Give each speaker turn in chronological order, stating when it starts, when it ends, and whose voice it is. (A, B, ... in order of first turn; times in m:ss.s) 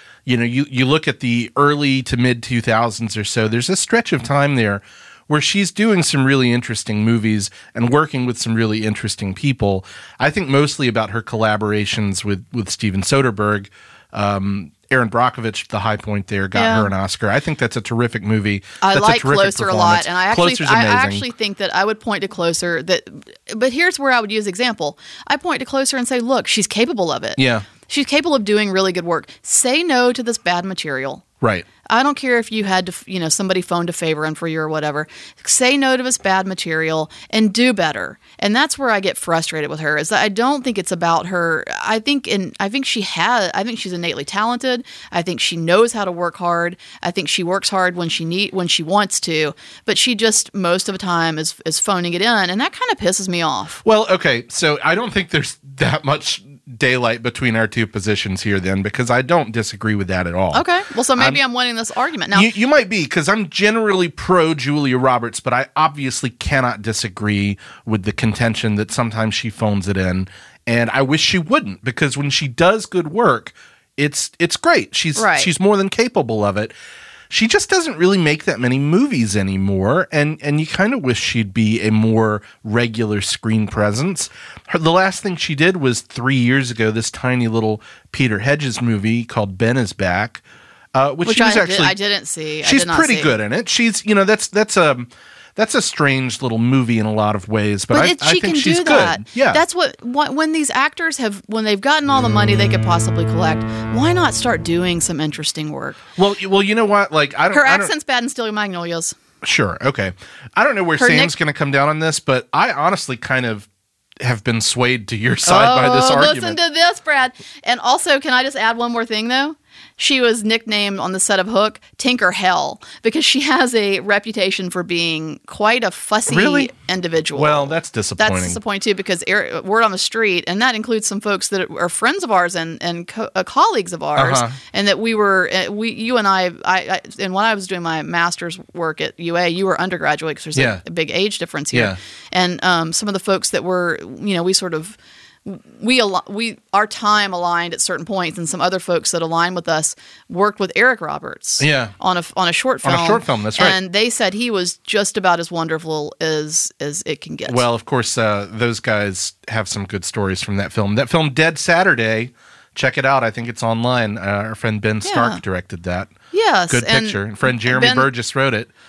0:00.2-0:21.3 A
0:16.5-0:16.9 B
0:18.8-0:31.2 B
0:27.4-0:27.7 A
0:31.4-0:31.6 A
0:31.8-0:53.8 B
0:53.8-1:00.6 A
1:00.5-1:02.5 B
1:02.3-1:16.7 A
1:15.1-1:15.5 B
1:17.3-1:30.4 A
1:30.9-1:32.0 A
1:31.2-1:33.3 B
1:32.6-1:39.6 A
1:37.9-1:46.0 B
1:46.2-1:47.9 A
1:47.5-1:49.2 B
1:49.4-1:53.7 A
1:51.0-1:51.3 B
1:54.2-1:56.6 A
1:55.4-2:37.6 B
2:06.3-2:06.7 A
2:07.3-2:08.6 A
2:14.2-2:14.6 A
2:20.5-2:20.8 A
2:21.7-2:22.0 A
2:31.6-2:31.9 A
2:32.8-2:33.8 A
2:37.4-2:46.1 A
2:45.0-2:45.4 B
2:46.3-2:48.1 B
2:46.7-2:48.7 A